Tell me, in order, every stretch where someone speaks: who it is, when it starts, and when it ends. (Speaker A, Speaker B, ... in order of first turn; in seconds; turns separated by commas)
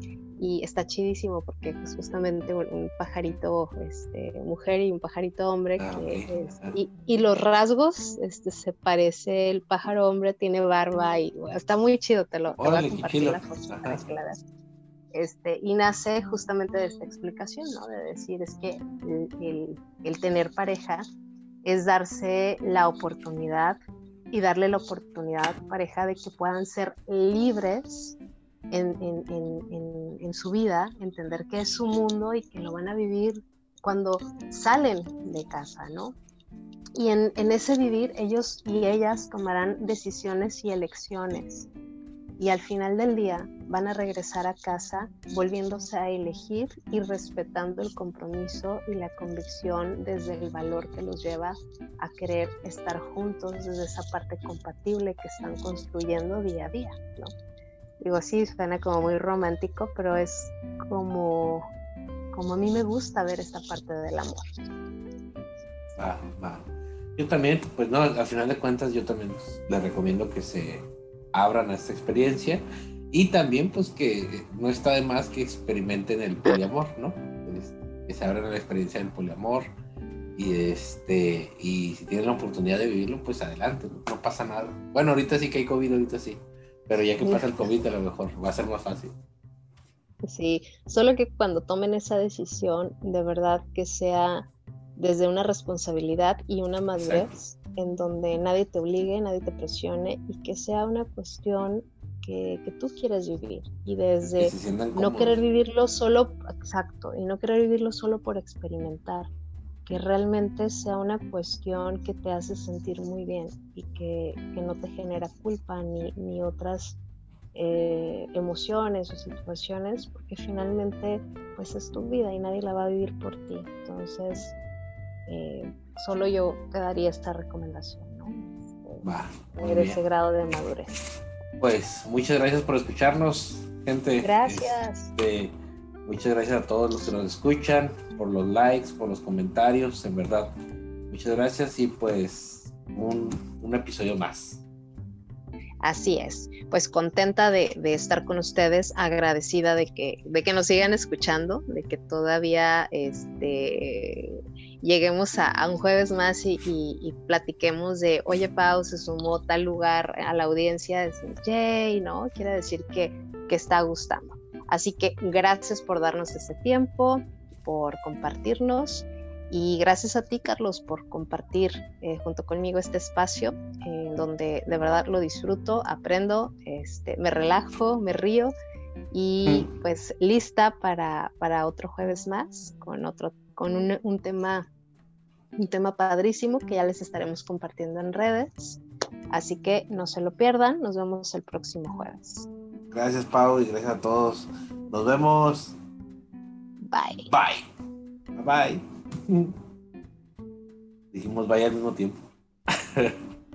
Speaker A: 0.4-14.4, Speaker B: 5.8-6.8, Speaker B: 12.6-14.0, Speaker A: 15.1-21.1, Speaker A: 21.6-23.8, Speaker A: 24.3-28.2, Speaker A: 28.7-36.2, Speaker A: 37.0-41.7, Speaker A: 42.4-57.3, Speaker A: 58.0-61.7, Speaker A: 62.3-64.6, Speaker B: 66.0-79.7, Speaker B: 80.4-89.1, Speaker A: 87.2-87.6, Speaker A: 90.3-94.5, Speaker A: 95.0-109.3, Speaker B: 97.0-97.3, Speaker B: 104.4-105.4, Speaker A: 109.9-117.0, Speaker A: 117.5-124.5, Speaker A: 125.3-131.0, Speaker B: 129.0-130.0, Speaker B: 131.6-135.5, Speaker A: 134.2-135.1, Speaker B: 136.1-140.5, Speaker B: 141.1-144.6, Speaker A: 145.8-178.5, Speaker A: 179.1-184.7, Speaker A: 185.6-192.5, Speaker B: 192.9-195.8, Speaker A: 196.9-197.3, Speaker B: 197.3-197.6, Speaker B: 198.3-199.6, Speaker B: 201.1-203.2